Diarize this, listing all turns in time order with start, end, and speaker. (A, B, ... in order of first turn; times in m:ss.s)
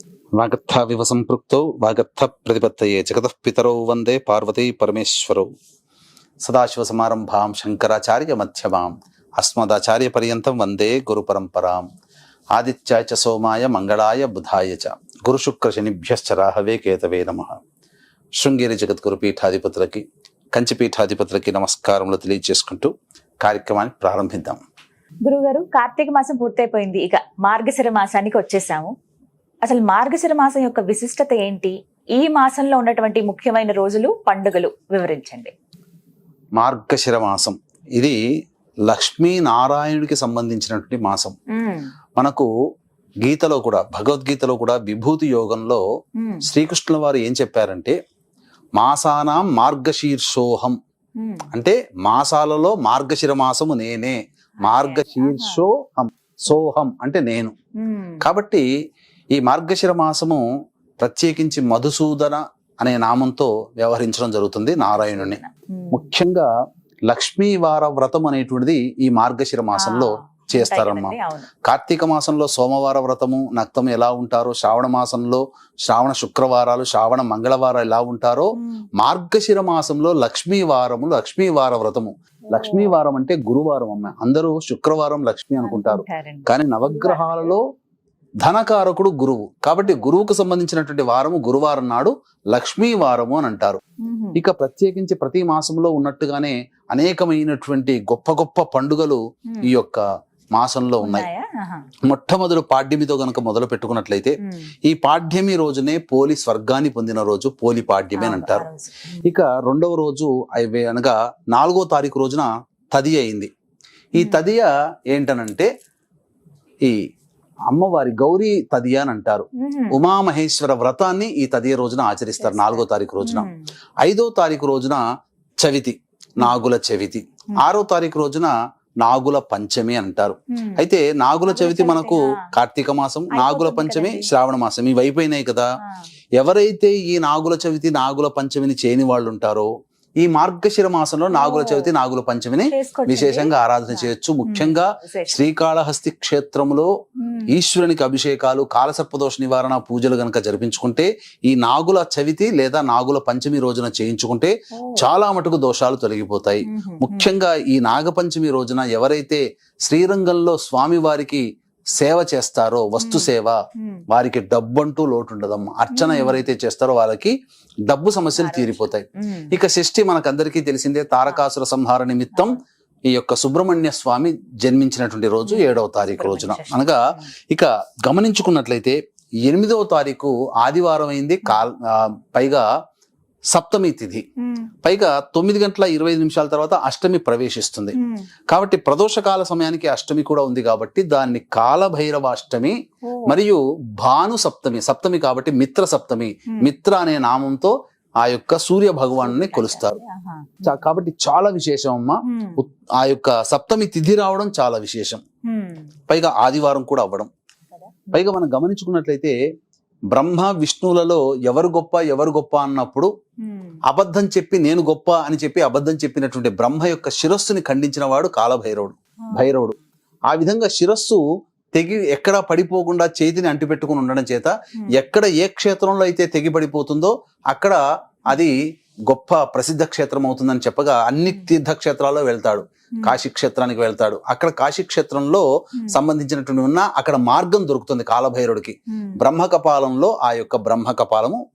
0:00.4-0:05.5 A
0:06.4-0:11.9 A
0:12.5-0:17.6 A
0:18.4-0:22.9 A
0:23.4-0:24.6 A
0:25.2-0:28.9 B
0:29.6-0:35.5 B
0:36.6-0:38.2 A
0:38.9-0:41.3 A
0:41.5-0:41.9 B
0:42.2-0:42.5 A
0:43.2-0:45.8 A
0:46.2-0:46.4 B
0:46.4-0:47.9 A
0:48.8-0:50.8 A
0:51.2-0:51.5 B
0:51.5-0:57.5 A
0:54.6-0:55.6 B
0:57.8-0:58.2 B
0:58.2-0:58.6 A
0:59.3-1:00.4 A
1:01.0-1:05.4 A
1:04.8-1:06.1 B
1:05.9-1:06.5 A
1:07.1-1:18.5 A
1:09.7-1:11.5 B
1:18.5-1:18.8 B
1:19.0-1:27.6 A
1:22.5-1:23.0 B
1:25.6-1:27.6 B
1:28.4-1:33.8 A
1:29.9-1:30.2 B
1:34.0-1:34.4 B
1:34.4-1:41.3 A
1:41.0-1:41.8 B
1:42.0-1:48.6 A
1:44.4-1:44.7 B
1:48.2-1:49.2 B
1:49.2-1:53.5 A
1:54.1-1:55.7 A
1:54.2-1:54.4 B
1:57.7-2:03.5 A
1:59.6-2:00.0 B
2:02.4-2:03.6 B
2:04.0-2:05.0 A
2:05.6-2:08.5 A
2:09.0-2:15.6 A
2:10.5-2:10.8 B
2:11.5-2:12.5 B
2:13.3-2:14.3 B
2:16.4-2:19.7 A
2:20.2-2:26.9 A
2:21.3-2:21.9 B
2:22.6-2:25.4 B
2:27.2-2:27.5 B
2:27.5-2:41.4 A
2:34.7-2:35.1 B
2:36.6-2:37.3 B
2:42.0-2:43.6 A
2:43.0-2:44.0 B
2:44.1-2:47.3 A
2:45.9-2:46.4 B
2:47.9-3:02.6 A
2:48.4-2:49.5 B
2:52.3-2:52.6 B
2:55.4-2:57.3 B
3:03.5-3:04.2 A
3:04.4-3:04.7 B
3:04.8-3:08.0 A
3:07.9-3:08.2 B
3:08.5-3:20.0 A
3:13.0-3:13.4 B
3:19.2-3:20.8 B
3:20.6-3:25.2 A
3:22.2-3:22.6 B
3:25.4-3:25.9 B
3:26.1-3:27.3 A
3:27.7-3:28.3 B
3:28.1-3:29.3 A
3:30.1-3:33.1 A
3:33.4-3:33.8 B
3:33.9-3:39.7 A
3:40.3-3:41.2 A
3:41.7-3:48.6 A
3:49.1-4:01.4 A
3:58.9-3:59.2 B